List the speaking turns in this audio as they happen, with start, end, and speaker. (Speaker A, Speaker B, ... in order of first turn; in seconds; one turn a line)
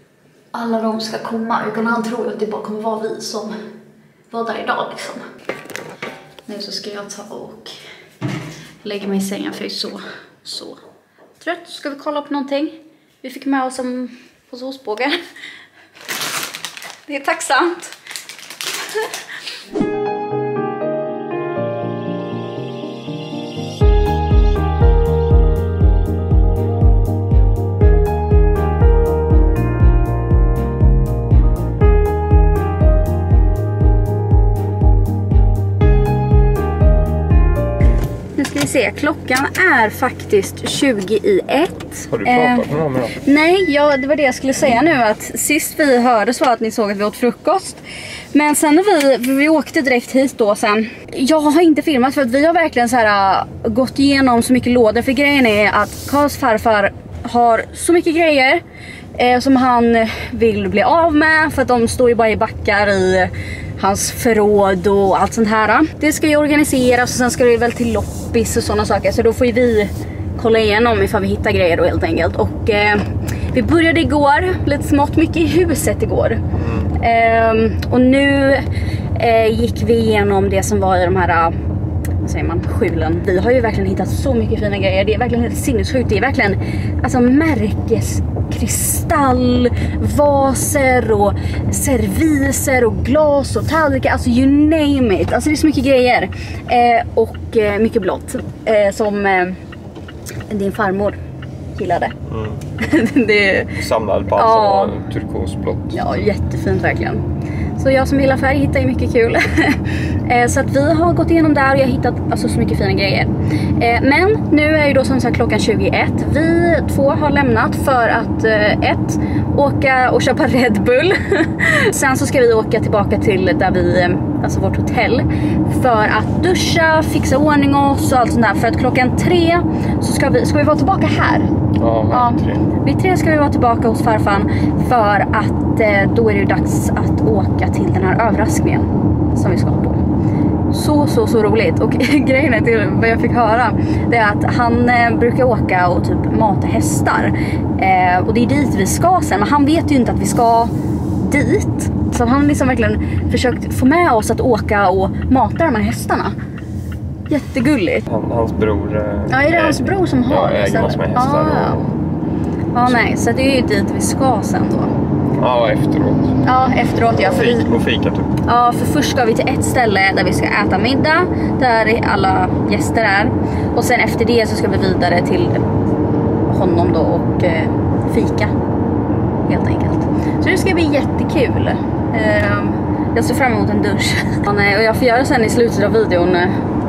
Speaker A: 0.5-3.5
Speaker A: 4.3-5.2
Speaker A: 6.5-7.7
Speaker A: 8.8-10.8
Speaker A: 11.4-15.2
Speaker A: 17.1-17.9
Speaker A: 38.3-58.6
Speaker B: 42.1-43.1
Speaker A: 59.1-76.4
Speaker B: 76.6-76.9
Speaker A: 77.0-81.5
Speaker A: 82.2-99.6
Speaker A: 100.5-101.2
Speaker A: 101.7-102.2
Speaker B: 102.3-102.6
Speaker A: 102.8-103.8
Speaker B: 103.8-106.0
Speaker A: 104.3-105.0
Speaker A: 105.9-107.2
Speaker A: 107.8-131.5
Speaker B: 131.8-132.6
Speaker A: 132.1-140.0
Speaker A: 140.7-156.3
Speaker A: 157.3-158.1
Speaker B: 158.1-161.9
Speaker A: 159.3-161.9
Speaker A: 162.7-164.9
Speaker B: 165.4-166.4
Speaker A: 166.4-167.8
Speaker B: 167.2-168.4
Speaker A: 168.4-175.7
Speaker A: 176.5-178.5
Speaker A: 179.4-186.6